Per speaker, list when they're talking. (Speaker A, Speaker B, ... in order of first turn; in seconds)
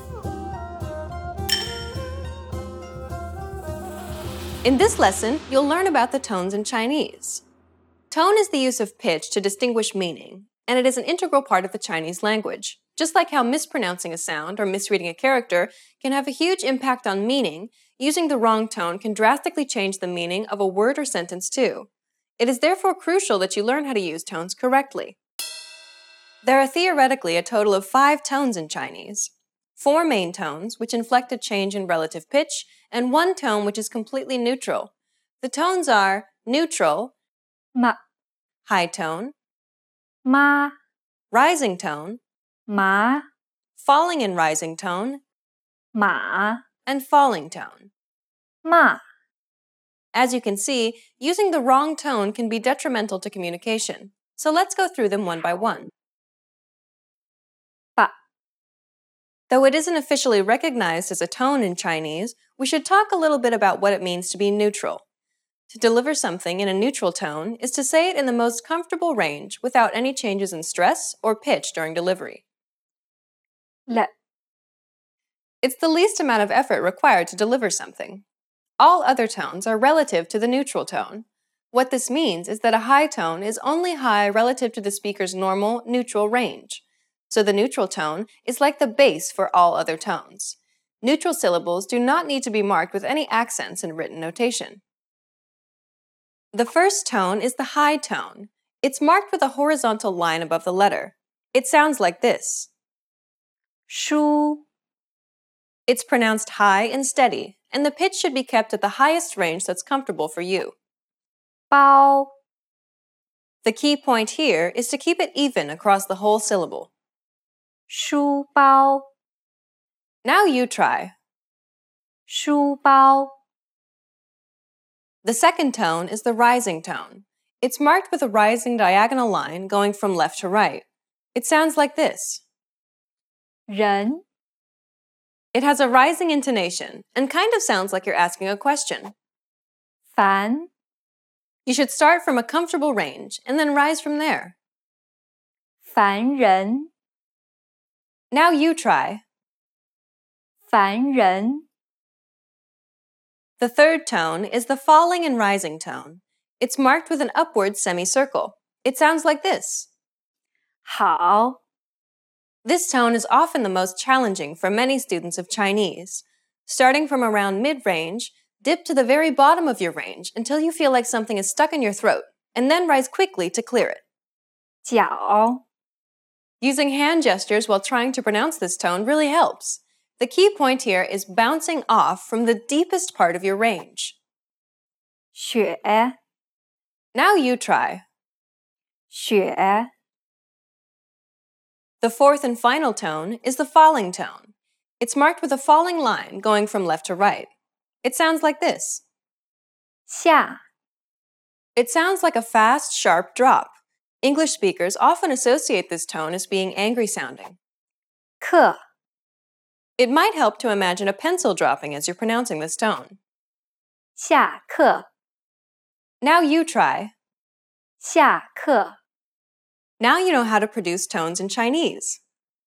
Speaker A: 4.6-7.4, 8.1-21.9, 22.4-25.2, 26.4-37.1, 38.6-39.3, 41.3-42.2, 43.8-45.2, 46.9-47.9, 50.1-55.9, 59.5-65.0, 65.7-72.4, 75.6-78.2, 78.8-94.8, 96.5-102.7, 105.9-110.7, 113.6-116.9, 120.2-121.1, 125.2-130.8, 131.3-132.4, 135.5-139.1, 141.7-144.6, 148.3-149.2, 153.6-159.9, 162.6-174.0, 176.6-184.2, 187.1-188.0, 192.0-197.5, 198.0-199.0, 201.8-207.6, 210.0-213.2, 216.2-217.1, 220.0-222.2
Speaker B: 40.2-40.7, 42.7-43.2, 45.9-46.6, 48.6-49.0, 103.9-104.6, 111.7-112.3, 117.9-119.1, 122.3-123.3, 133.7-134.2, 140.1-140.7, 145.8-146.9, 150.7-151.7, 160.8-161.6, 174.8-175.6, 185.3-186.2, 189.1-189.9, 200.1-200.6, 208.4-208.8, 214.2-215.1, 218.0-219.0